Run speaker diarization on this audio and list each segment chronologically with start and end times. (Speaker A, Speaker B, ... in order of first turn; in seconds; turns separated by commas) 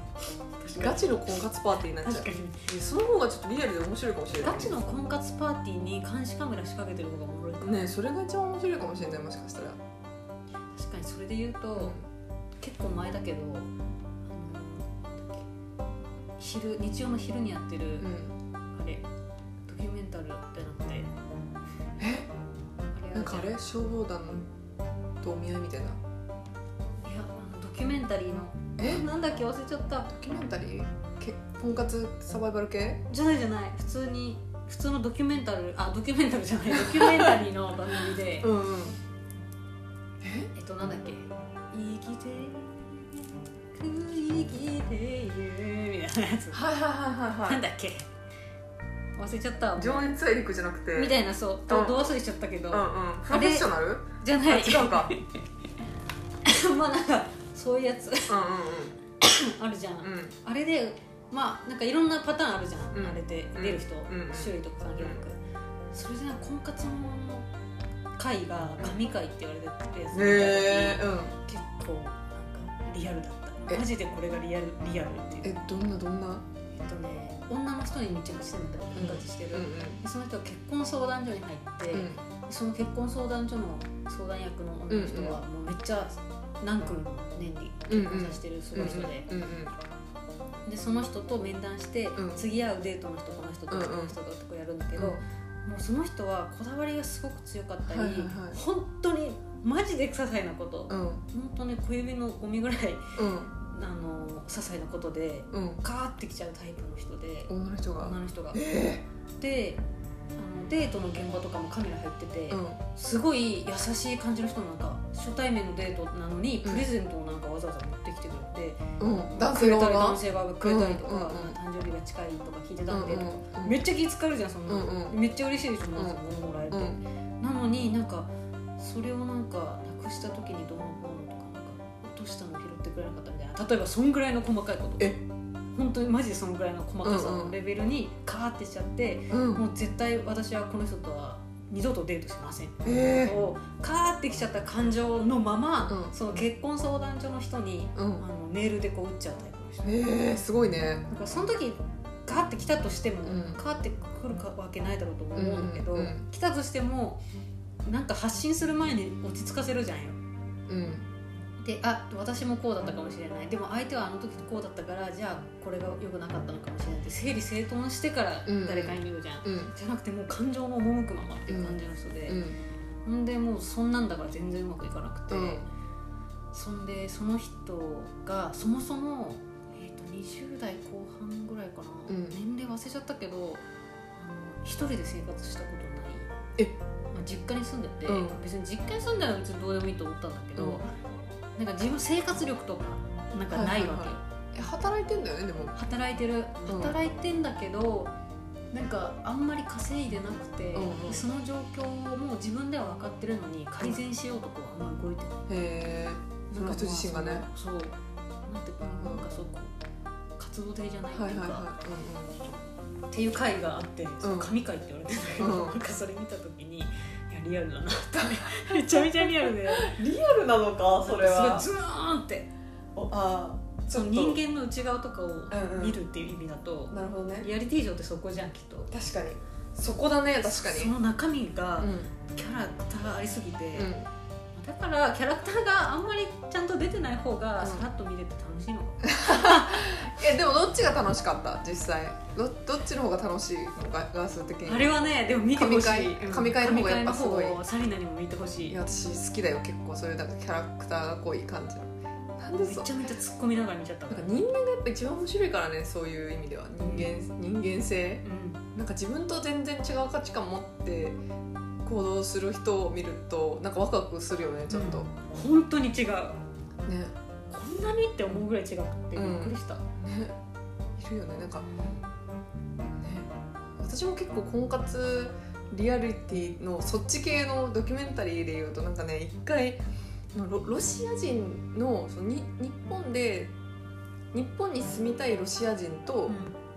Speaker A: 0.6-1.3, Speaker B: 0.7-4.8, Speaker A: 2.0-2.7, Speaker A: 4.4-8.0, Speaker B: 7.6-9.8, Speaker A: 10.7-12.0, Speaker B: 11.8-12.1, Speaker A: 12.6-13.7, Speaker A: 14.3-15.5, Speaker A: 16.4-18.1, Speaker B: 18.0-18.4, Speaker A: 18.7-19.1, Speaker A: 19.7-21.1, Speaker B: 22.0-22.3, Speaker A: 22.9-23.7, Speaker B: 23.1-24.5, Speaker B: 25.2-26.0, Speaker A: 27.0-30.1, Speaker B: 28.8-29.0, Speaker B: 30.1-33.0, Speaker A: 33.1-38.5, Speaker B: 36.8-37.3, Speaker B: 38.4-39.0, Speaker B: 40.2-40.5, Speaker A: 40.5-46.6, Speaker B: 46.5-47.6, Speaker A: 47.5-48.1, Speaker A: 49.2-50.2, Speaker B: 49.8-52.1, Speaker A: 50.9-55.4, Speaker B: 52.7-55.1, Speaker A: 56.4-58.5, Speaker B: 58.3-59.0, Speaker A: 59.2-65.4, Speaker B: 60.0-60.4, Speaker B: 62.9-65.2, Speaker A: 65.9-67.5, Speaker A: 68.2-75.6, Speaker B: 70.1-71.4, Speaker B: 75.4-76.5, Speaker A: 76.7-89.3, Speaker B: 78.9-80.0, Speaker B: 81.9-82.2, Speaker B: 84.9-85.4, Speaker B: 87.9-89.7, Speaker A: 90.7-108.6, Speaker B: 92.2-92.4, Speaker B: 93.7-94.2, Speaker B: 95.0-95.2, Speaker B: 97.8-98.6, Speaker B: 100.9-101.2, Speaker B: 103.2-103.5, Speaker B: 105.5-105.8, Speaker B: 107.5-109.0, Speaker A: 109.4-109.8, Speaker A: 110.4-135.1, Speaker B: 112.5-112.8, Speaker B: 119.0-121.6, Speaker B: 122.9-123.8, Speaker B: 124.7-125.2, Speaker B: 126.7-127.0, Speaker A: 135.7-150.0, Speaker B: 137.0-137.6, Speaker B: 139.3-139.6, Speaker B: 142.8-143.4, Speaker B: 145.9-146.4, Speaker B: 148.0-148.2, Speaker B: 149.8-151.1, Speaker A: 151.1-157.2, Speaker B: 153.2-153.6, Speaker B: 155.3-156.3, Speaker A: 157.8-160.2, Speaker B: 160.7-161.1, Speaker A: 161.6-172.4, Speaker B: 168.5-169.7, Speaker B: 171.5-171.8, Speaker B: 172.3-172.6, Speaker A: 173.1-175.6, Speaker B: 175.3-175.7, Speaker A: 176.5-183.6, Speaker B: 182.1-182.4, Speaker A: 184.2-186.3, Speaker A: 187.1-190.9, Speaker B: 188.1-188.4, Speaker B: 190.6-190.8, Speaker A: 191.6-194.2, Speaker B: 193.5-195.8, Speaker A: 195.8-198.1, Speaker B: 196.7-196.9, Speaker A: 198.7-205.5, Speaker B: 200.8-201.3, Speaker B: 205.5-207.5, Speaker A: 206.5-207.9, Speaker A: 208.5-209.7, Speaker B: 208.8-209.2, Speaker A: 210.4-211.7, Speaker B: 211.1-212.4, Speaker A: 213.1-220.0, Speaker B: 214.2-214.5, Speaker B: 215.4-215.8, Speaker B: 218.1-221.7, Speaker A: 221.0-222.5, Speaker B: 222.9-224.4, Speaker A: 223.9-228.9, Speaker B: 225.5-226.0, Speaker B: 226.9-227.5, Speaker B: 228.9-230.9, Speaker A: 230.5-233.9, Speaker B: 231.8-232.1, Speaker B: 233.8-234.1, Speaker A: 234.6-240.1, Speaker B: 237.6-237.8, Speaker B: 239.1-244.9, Speaker A: 244.7-248.8, Speaker B: 245.5-247.6, Speaker B: 248.7-252.9, Speaker A: 252.6-254.3, Speaker B: 254.1-261.2, Speaker A: 256.8-257.1, Speaker A: 258.2-258.6, Speaker B: 261.8-265.1, Speaker A: 264.7-266.4, Speaker B: 266.9-267.1, Speaker A: 267.5-269.8, Speaker B: 269.1-270.4, Speaker B: 271.0-271.7, Speaker B: 272.9-279.8, Speaker B: 280.3-283.5, Speaker B: 284.3-286.4, Speaker A: 286.3-286.6